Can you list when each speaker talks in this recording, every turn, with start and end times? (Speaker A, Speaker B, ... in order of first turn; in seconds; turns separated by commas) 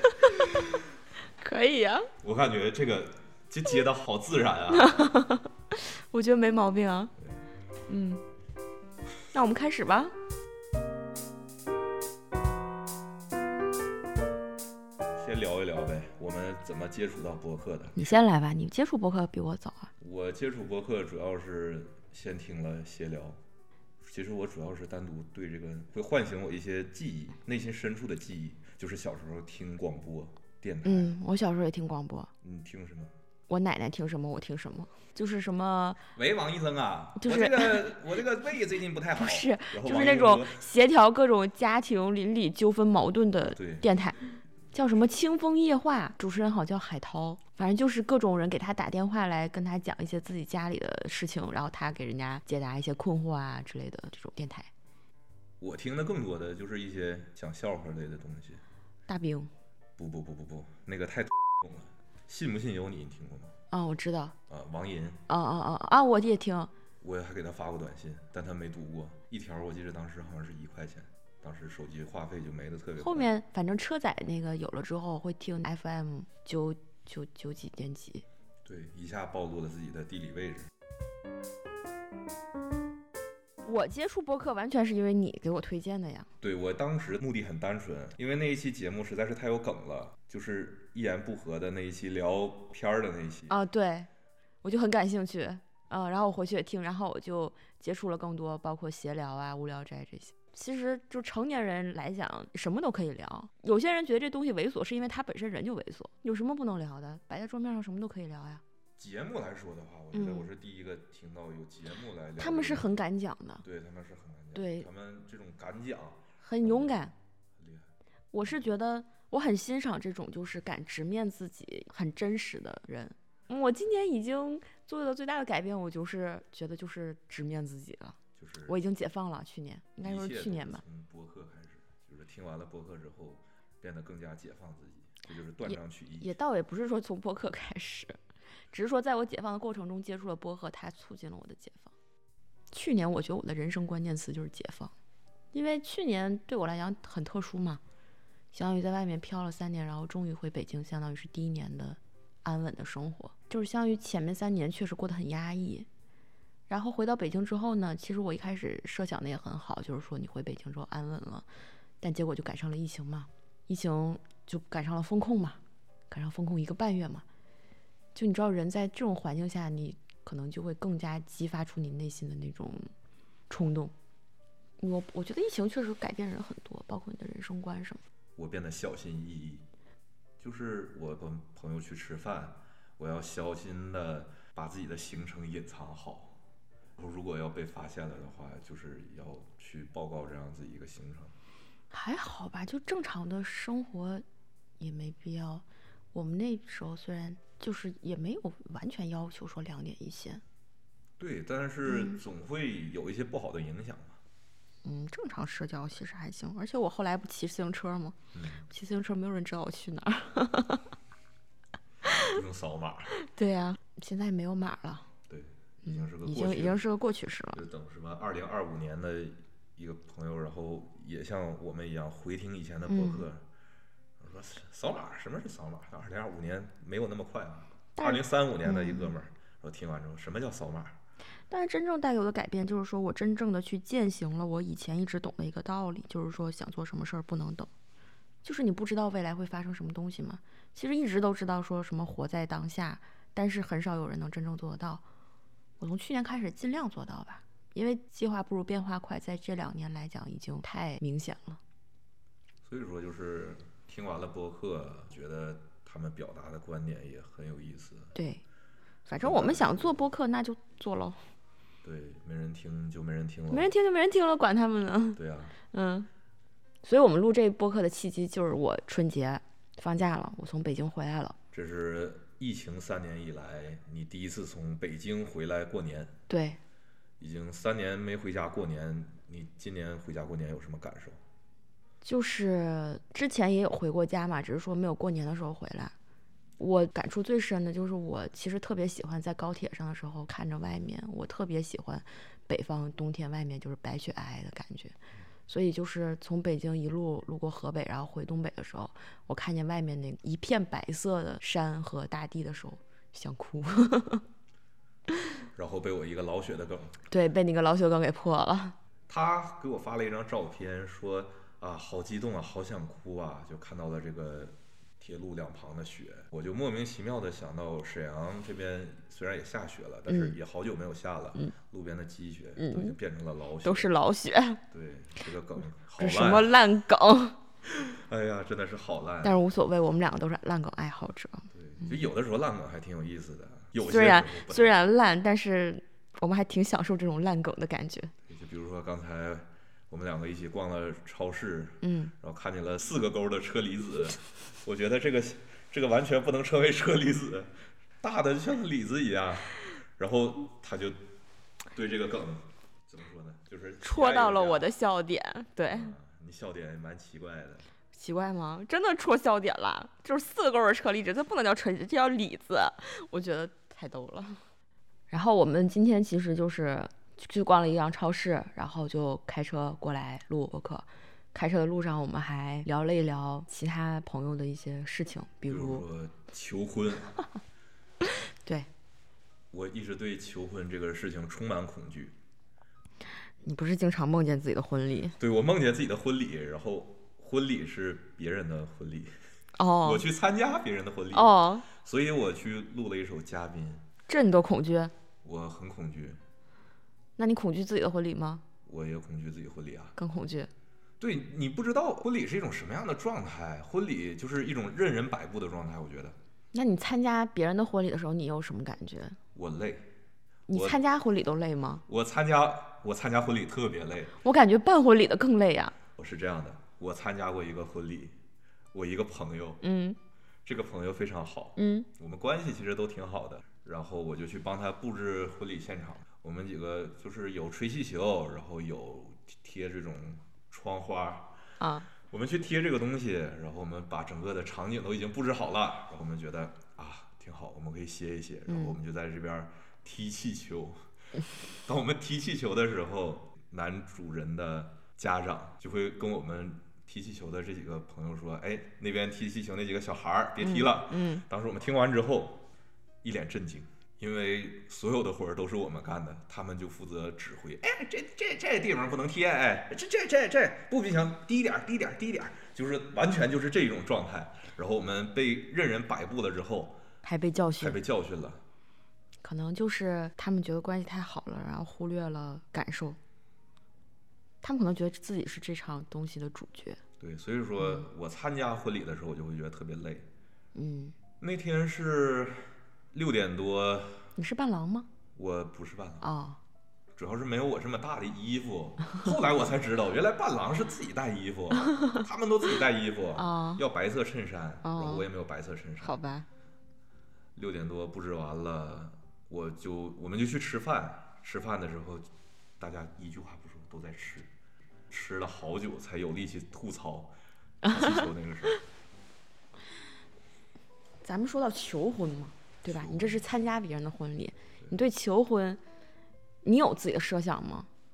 Speaker A: 1.4-2.1, Speaker B: 2.2-4.9, Speaker A: 4.7-7.1, Speaker A: 7.9-8.2, Speaker A: 9.3-10.1, Speaker B: 15.2-18.1, Speaker A: 18.0-19.9, Speaker B: 20.0-23.4, Speaker B: 24.0-31.1, Speaker A: 30.9-32.3, Speaker B: 32.4-33.1, Speaker A: 33.5-36.0, Speaker B: 36.1-40.6, Speaker A: 37.2-37.9, Speaker A: 39.2-54.7, Speaker B: 43.4-43.9, Speaker B: 55.6-58.6, Speaker A: 59.1-59.5, Speaker B: 60.0-63.5, Speaker A: 63.7-64.4, Speaker B: 64.5-65.2, Speaker A: 65.3-66.7, Speaker B: 67.0-73.3, Speaker A: 73.0-78.2, Speaker B: 78.7-80.7, Speaker A: 83.7-86.3, Speaker B: 86.4-93.5, Speaker A: 93.5-94.1, Speaker A: 94.6-108.6, Speaker B: 109.0-112.9, Speaker A: 110.1-110.5, Speaker A: 112.4-113.6, Speaker B: 113.6-117.0, Speaker A: 114.5-114.9, Speaker A: 116.4-117.1, Speaker B: 117.6-117.9, Speaker A: 118.3-130.8, Speaker B: 128.4-128.8, Speaker B: 130.0-136.3, Speaker A: 135.7-138.2, Speaker A: 138.7-141.9, Speaker A: 142.7-144.9, Speaker A: 145.5-147.8, Speaker A: 148.5-155.9, Speaker A: 156.7-161.5, Speaker A: 162.0-167.3, Speaker A: 168.2-172.9, Speaker A: 173.5-173.9, Speaker A: 174.8-178.0, Speaker B: 178.4-179.7, Speaker B: 180.4-186.4, Speaker B: 187.0-191.3, Speaker A: 191.9-194.2, Speaker A: 194.8-200.4, Speaker B: 201.2-204.2, Speaker A: 201.8-202.2, Speaker A: 204.8-208.2, Speaker B: 208.3-208.7, Speaker A: 208.7-210.9, Speaker B: 212.1-213.1, Speaker A: 213.2-215.1, Speaker B: 215.3-216.8, Speaker A: 215.8-217.6, Speaker B: 217.5-223.4, Speaker A: 222.9-223.3, Speaker B: 224.2-231.0, Speaker A: 228.0-229.2, Speaker A: 231.5-237.7, Speaker A: 238.4-245.0, Speaker A: 245.8-251.6, Speaker B: 252.6-258.1, Speaker A: 258.1-258.4, Speaker A: 259.1-261.2, Speaker B: 259.1-260.1, Speaker B: 261.8-263.7, Speaker A: 263.5-265.2, Speaker B: 265.1-265.6, Speaker A: 265.7-266.1, Speaker A: 266.8-271.4, Speaker B: 271.5-276.1, Speaker A: 276.3-276.6, Speaker B: 277.2-281.2, Speaker A: 282.0-285.9, Speaker A: 286.6-294.9, Speaker A: 295.5-304.2, Speaker B: 305.6-307.0, Speaker A: 307.1-308.8, Speaker B: 309.1-323.9, Speaker A: 320.1-320.4, Speaker A: 322.6-323.0, Speaker A: 323.6-324.6, Speaker B: 324.7-326.5, Speaker A: 326.0-327.4, Speaker B: 327.6-329.4, Speaker A: 329.2-331.5, Speaker B: 331.5-334.7, Speaker A: 333.8-338.1, Speaker B: 338.3-351.0, Speaker A: 341.8-342.1, Speaker B: 351.7-354.7, Speaker A: 353.8-355.9, Speaker B: 355.7-357.7, Speaker A: 357.9-364.4, Speaker A: 365.1-375.8, Speaker B: 375.5-377.2, Speaker B: 379.5-382.1, Speaker A: 383.4-385.2, Speaker B: 385.2-389.1, Speaker A: 389.6-390.0, Speaker B: 389.8-393.9, Speaker A: 391.1-391.7, Speaker A: 394.1-394.9, Speaker B: 395.2-396.2, Speaker A: 397.2-398.4, Speaker B: 398.7-399.9, Speaker A: 400.0-400.5, Speaker B: 401.0-406.2, Speaker A: 406.5-409.2, Speaker B: 409.4-409.9, Speaker A: 410.5-411.8, Speaker B: 410.5-410.8, Speaker B: 411.9-414.1, Speaker A: 414.2-415.7, Speaker B: 416.0-418.2, Speaker B: 418.7-419.6, Speaker A: 419.6-420.0, Speaker B: 420.4-431.3, Speaker A: 421.6-421.9, Speaker A: 431.6-431.9, Speaker B: 432.1-440.9, Speaker A: 438.5-438.8, Speaker B: 441.6-452.4, Speaker A: 450.4-451.2, Speaker B: 453.0-466.8, Speaker A: 467.0-467.8, Speaker B: 467.6-468.4, Speaker A: 469.2-473.0, Speaker A: 474.4-476.8, Speaker B: 477.0-480.1, Speaker A: 480.6-480.9, Speaker B: 481.2-484.1, Speaker A: 484.2-484.9, Speaker B: 485.1-486.1, Speaker A: 486.0-486.4, Speaker B: 487.0-496.0, Speaker A: 493.2-493.6, Speaker A: 494.6-495.1, Speaker A: 495.8-496.3, Speaker B: 497.4-504.3, Speaker B: 504.9-508.6, Speaker A: 511.0-515.6, Speaker B: 512.7-513.2, Speaker A: 516.4-517.7